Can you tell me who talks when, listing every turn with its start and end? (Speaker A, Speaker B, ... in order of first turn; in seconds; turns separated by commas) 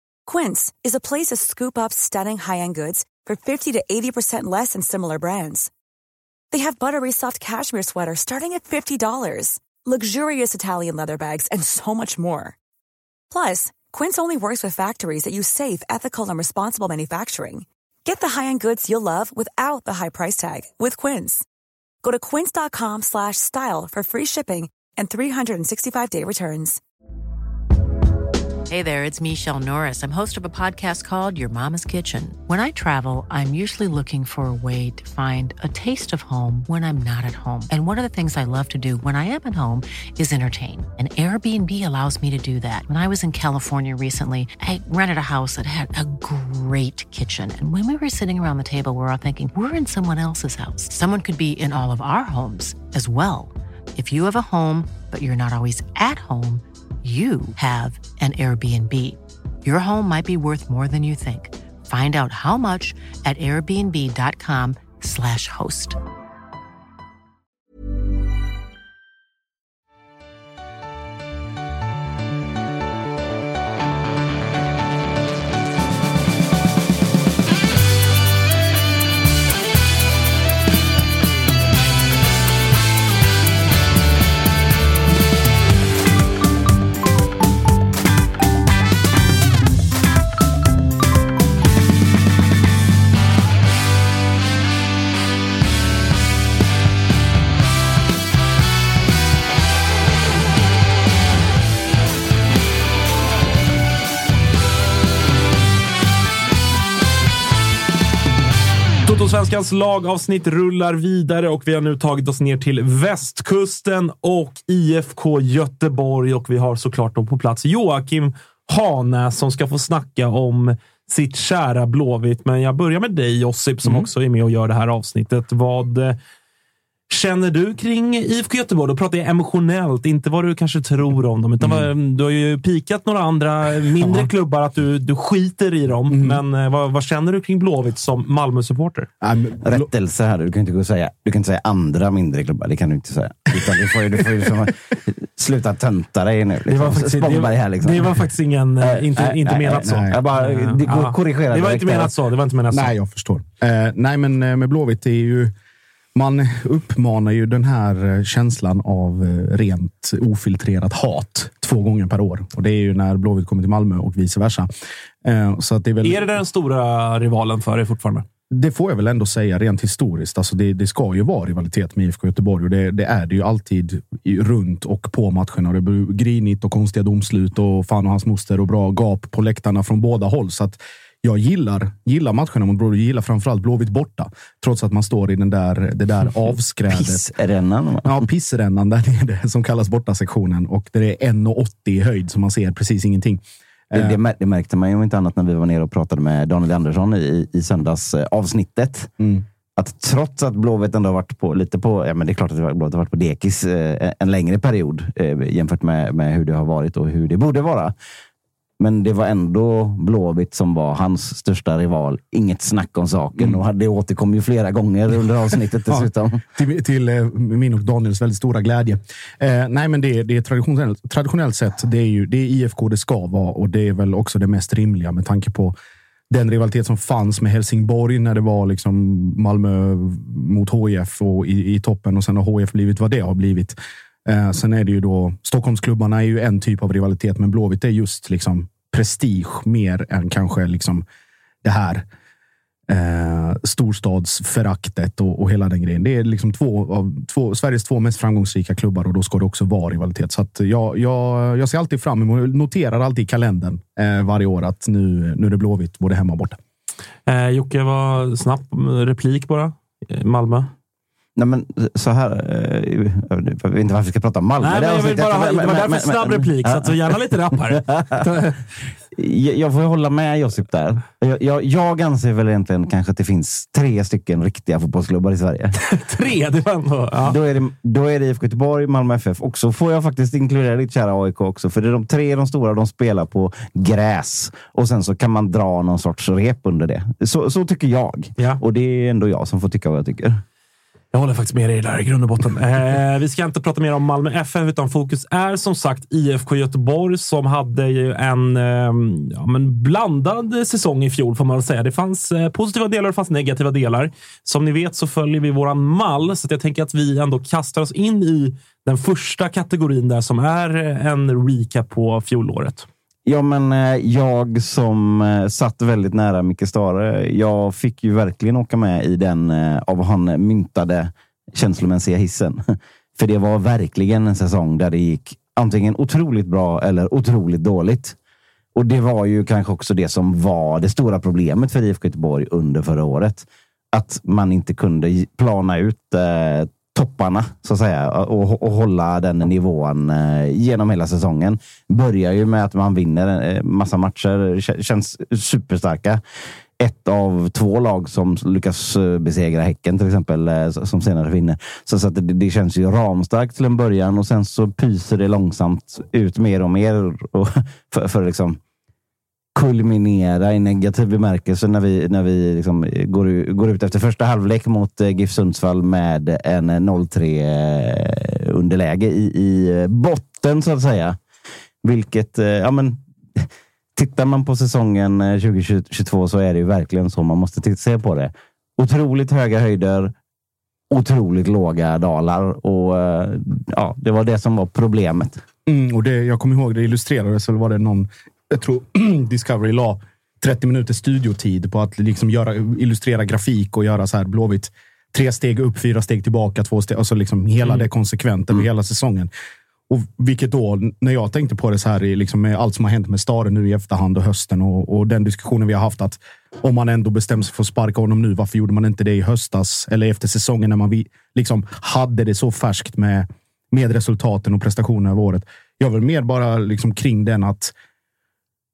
Speaker A: 0.2-5.7, Speaker A: 6.5-12.6, Speaker A: 13.3-21.4, Speaker A: 22.0-26.8, Speaker B: 28.7-66.0, Speaker C: 109.0-126.2, Speaker D: 123.8-124.1, Speaker C: 127.1-139.1, Speaker D: 131.6-131.9, Speaker D: 134.0-134.3, Speaker D: 136.1-136.4, Speaker D: 139.2-139.9, Speaker E: 139.6-148.1, Speaker D: 143.6-143.9, Speaker C: 146.7-152.9, Speaker E: 148.8-152.1, Speaker D: 149.9-150.2, Speaker D: 152.7-155.5, Speaker D: 156.1-164.7, Speaker D: 165.2-166.3, Speaker C: 166.0-168.2, Speaker D: 168.5-187.3, Speaker E: 186.9-188.2, Speaker D: 188.0-194.2, Speaker E: 193.9-199.1, Speaker D: 199.2-199.4, Speaker E: 199.8-207.9, Speaker E: 208.8-216.4, Speaker D: 215.9-225.8, Speaker D: 226.3-241.0, Speaker D: 241.6-242.0, Speaker D: 242.9-256.6, Speaker C: 257.3-260.7, Speaker E: 261.4-268.1, Speaker C: 264.6-268.6, Speaker E: 269.1-275.8, Speaker C: 275.8-277.4, Speaker E: 277.2-290.4, Speaker C: 291.1-312.9, Speaker E: 313.2-328.1, Speaker E: 328.8-346.2, Speaker E: 346.8-358.6, Speaker E: 359.5-371.2, Speaker E: 371.8-380.1, Speaker E: 380.9-385.4, Speaker D: 385.7-399.3, Speaker D: 399.9-417.7